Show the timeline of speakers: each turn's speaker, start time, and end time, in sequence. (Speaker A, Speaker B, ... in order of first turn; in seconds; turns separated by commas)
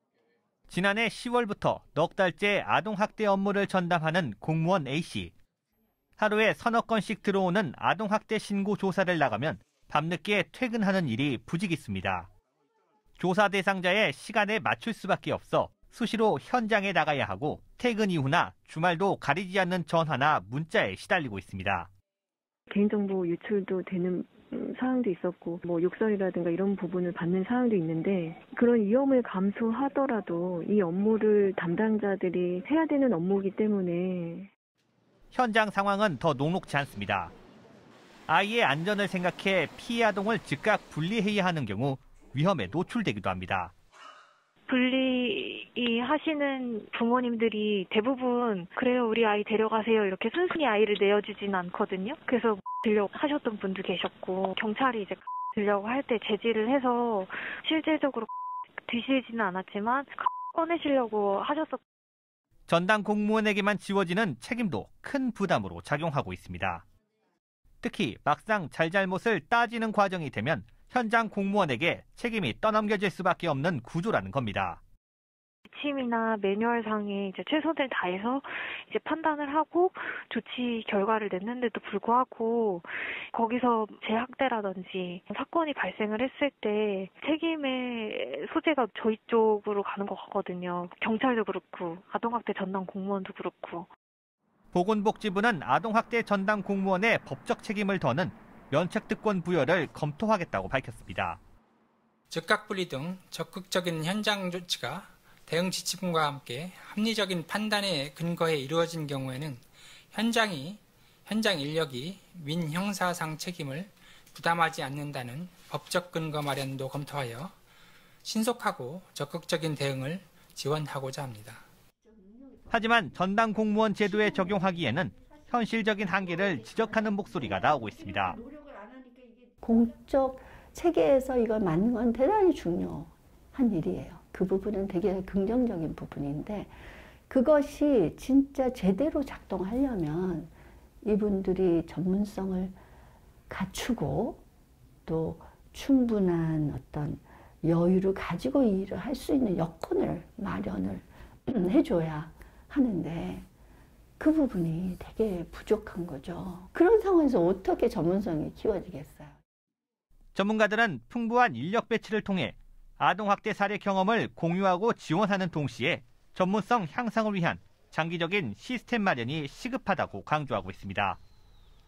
Speaker A: 0.7-5.3, Speaker A: 6.2-12.3, Speaker A: 13.2-21.9, Speaker B: 22.7-34.5, Speaker A: 35.3-37.3, Speaker A: 38.3-43.7, Speaker C: 44.7-58.3, Speaker C: 58.9-61.8, Speaker A: 62.7-66.8, Speaker A: 67.8-74.8, Speaker C: 75.7-93.9, Speaker A: 94.7-101.4, Speaker D: 102.3-117.5, Speaker D: 118.2-121.6, Speaker A: 122.7-128.4, Speaker E: 129.6-136.8, Speaker E: 137.3-140.5, Speaker E: 141.0-142.8, Speaker E: 143.5-144.4, Speaker E: 145.1-153.5, Speaker E: 154.2-159.4, Speaker A: 160.3-171.2